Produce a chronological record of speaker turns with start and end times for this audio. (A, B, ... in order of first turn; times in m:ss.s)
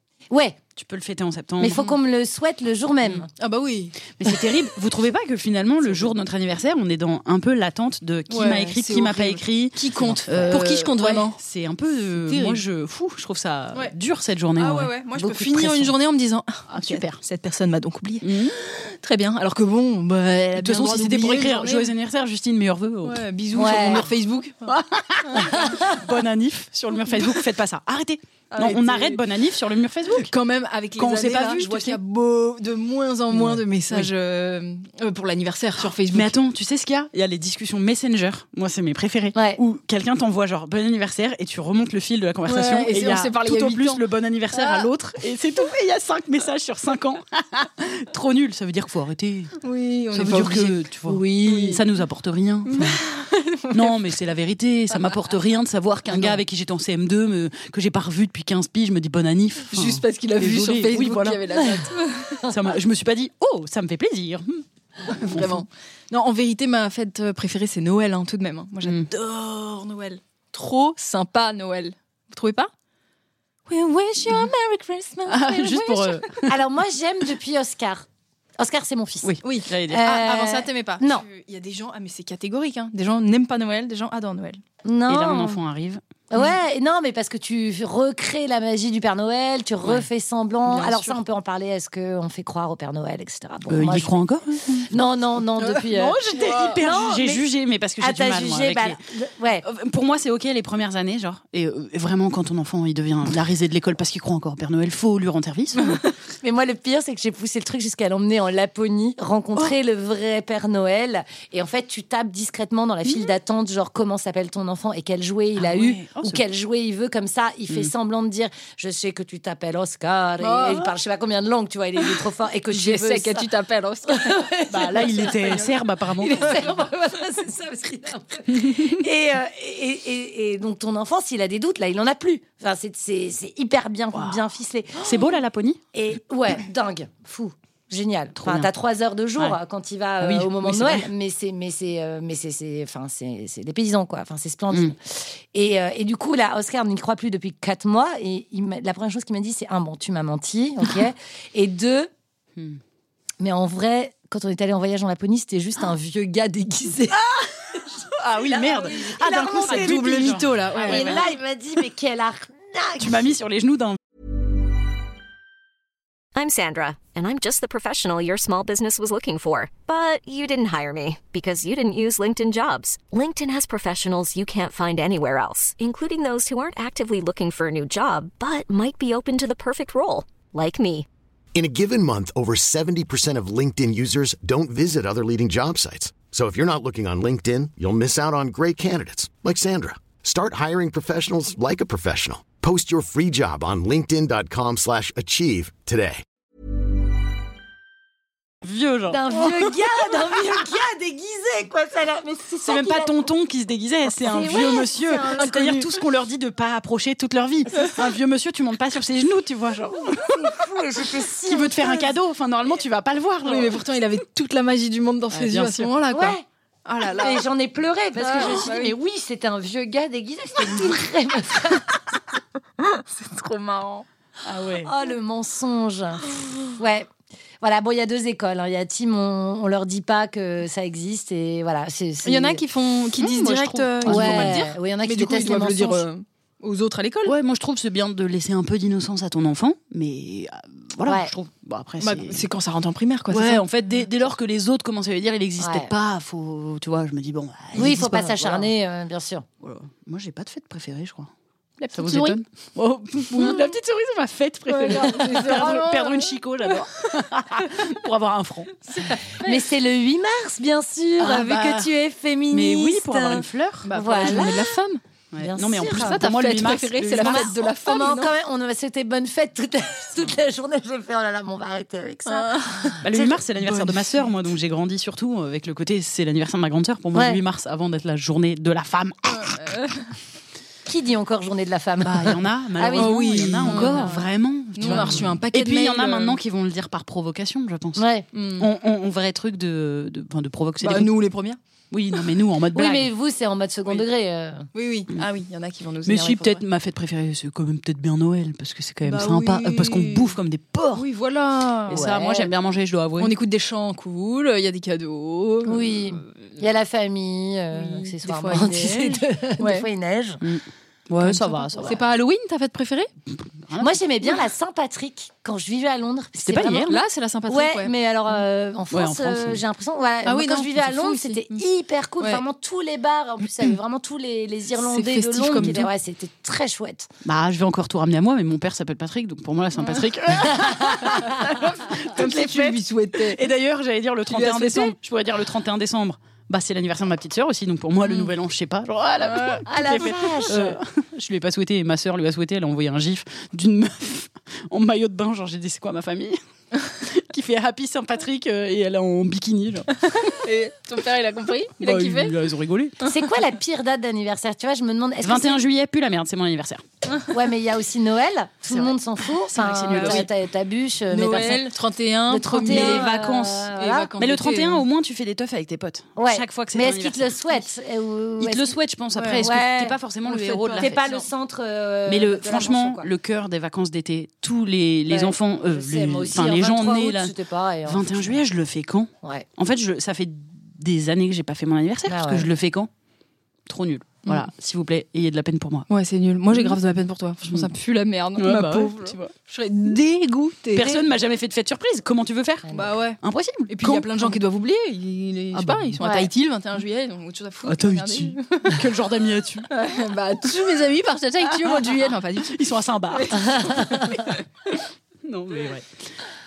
0:00.3-0:00.6 A
0:00.8-0:01.8 B
0:01.6-0:03.3 A
0:03.3-0:04.1 C
0:04.2-0:14.9 B
0:08.3-0:11.4 C
0:10.3-0:10.6 A
0:12.2-0:12.6 C
0:14.6-0:21.9 C
0:15.2-0:15.9 A
0:16.7-0:17.2 B
0:18.2-0:18.6 B
0:20.6-0:23.2 B
0:23.0-0:25.7 C
0:23.5-0:24.1 A
0:24.6-0:30.3 B
0:25.6-0:25.9 A
0:28.5-0:29.2 C
0:30.2-0:36.3 C
0:31.0-0:32.0 B
0:33.3-0:34.1 B
0:36.1-0:49.6 B
0:39.3-0:39.6 A
0:42.4-0:44.9 C
0:49.6-0:51.8 C
0:50.1-0:53.0 B
0:52.7-0:54.0 C
0:53.7-1:01.8 B
0:56.1-0:56.4 C
0:59.7-1:02.5 C
1:02.4-1:05.6 B
1:05.1-1:12.7 C
1:08.8-1:09.1 B
1:13.7-1:16.4 C
1:15.3-1:16.5 B
1:16.5-1:18.0 A
1:18.6-1:19.4 A
1:19.2-1:20.1 B
1:19.4-1:24.6 C
1:19.9-1:21.2 A
1:24.8-1:25.6 A
1:25.1-1:26.0 B
1:26.3-1:34.2 A
1:30.7-1:31.1 C
1:33.7-1:34.8 B
1:34.8-1:36.2 A
1:35.6-1:36.8 C
1:36.2-1:39.0 B
1:36.8-1:37.4 A
1:38.0-1:39.6 A
1:39.6-1:46.0 B
1:46.4-2:03.5 A
1:55.6-1:56.4 B
2:00.4-2:00.9 C
2:02.0-2:05.6 C
2:04.0-2:15.3 A
2:04.7-2:06.6 B
2:06.3-2:06.7 C
2:14.1-2:14.4 B
2:15.0-2:15.8 B
2:15.9-2:32.1 A
2:18.4-2:18.7 B
2:20.2-2:21.1 B
2:33.4-2:37.2 A
2:37.9-2:43.3 A
2:38.2-2:41.2 B
2:39.5-2:41.2 C
2:43.0-2:44.0 B
2:46.3-3:01.0 D
3:01.5-3:16.2 E
3:18.6-3:19.7 B
3:19.1-3:23.2 A
3:22.6-3:30.6 B
3:24.2-3:25.9 A
3:30.1-3:32.1 A
3:31.2-3:33.8 B
3:33.4-3:37.4 C
3:35.3-3:35.9 B
3:36.1-3:36.4 A
3:37.1-3:41.9 A
3:38.1-3:38.9 C
3:42.8-3:44.0 C
3:44.4-3:44.9 B
3:44.8-3:47.1 A
3:47.6-3:52.6 A
3:52.2-3:57.3 C
3:53.2-3:54.7 B
3:54.0-3:56.0 A
3:57.2-4:02.4 B
4:01.0-4:01.3 A
4:02.0-4:03.6 C
4:03.3-4:08.7 B
4:05.6-4:05.9 A
4:07.7-4:09.4 A
4:09.6-4:11.3 B
4:11.8-4:12.4 C
4:11.9-4:19.1 B
4:13.3-4:13.7 C
4:14.7-4:17.0 C
4:15.4-4:15.7 A
4:18.9-4:19.6 C
4:19.4-4:24.7 A
4:21.2-4:21.8 B
4:21.2-4:21.9 C
4:22.5-4:23.9 B
4:23.8-4:25.0 C
4:25.3-4:27.5 B
4:25.4-4:26.2 A
4:25.8-4:28.3 C
4:27.2-4:33.4 A
4:32.2-4:33.0 C
4:33.0-4:39.8 B
4:33.6-4:34.2 C
4:37.1-4:37.4 A
4:39.3-4:40.1 C
4:40.8-4:44.0 A
4:42.0-4:51.1 B
4:42.9-4:46.4 C
4:44.8-4:45.2 A
4:48.0-4:48.2 A
4:48.3-4:48.7 C
4:50.8-4:51.6 C
4:51.9-4:53.1 B
4:52.7-4:54.7 A
4:54.7-4:56.6 C
4:56.0-5:01.0 B
4:59.0-5:00.4 C
5:00.9-5:02.1 C
5:01.9-5:03.3 B
5:01.9-5:02.5 A
5:03.2-5:06.2 C
5:05.6-5:10.4 A
5:07.7-5:09.9 C
5:10.4-5:12.0 B
5:11.2-5:13.1 C
5:13.6-5:14.0 B
5:13.8-5:16.9 A
5:16.4-5:17.0 B
5:16.7-5:17.9 C
5:17.5-5:27.1 A
5:18.9-5:19.6 B
5:20.2-5:21.6 C
5:24.7-5:25.9 C
5:25.6-5:25.8 B
5:27.2-5:50.3 B
5:29.8-5:30.1 C
5:30.4-5:31.4 A
5:32.0-5:33.5 C
5:34.3-5:34.9 C
5:39.2-5:39.6 C
5:39.7-5:40.8 A
5:50.1-5:52.4 C
5:51.8-5:53.0 B
5:53.0-5:55.6 A
5:55.2-5:56.8 B
5:57.3-6:01.7 A
5:58.7-6:00.3 B
5:59.9-6:00.2 C
6:01.1-6:03.2 C
6:02.3-6:04.1 A
6:02.6-6:07.4 B
6:03.7-6:04.8 C
6:06.2-6:08.8 A
6:08.4-6:11.0 B
6:09.1-6:09.4 C
6:09.4-6:10.0 A
6:10.2-6:11.2 C
6:10.8-6:13.1 A
6:12.1-6:17.3 B
6:15.1-6:18.4 A
6:17.8-6:22.9 B
6:22.1-6:22.5 A
6:23.7-6:25.8 B
6:25.9-6:31.0 C
6:26.5-6:26.8 B
6:27.4-6:27.7 B
6:28.4-6:29.3 B
6:30.7-6:34.4 B
6:32.6-6:32.9 A
6:32.7-6:38.9 C
6:35.5-6:36.0 B
6:36.0-6:36.3 A
6:37.6-6:39.7 B
6:39.7-6:44.4 C
6:41.4-6:44.4 B
6:45.2-6:45.9 B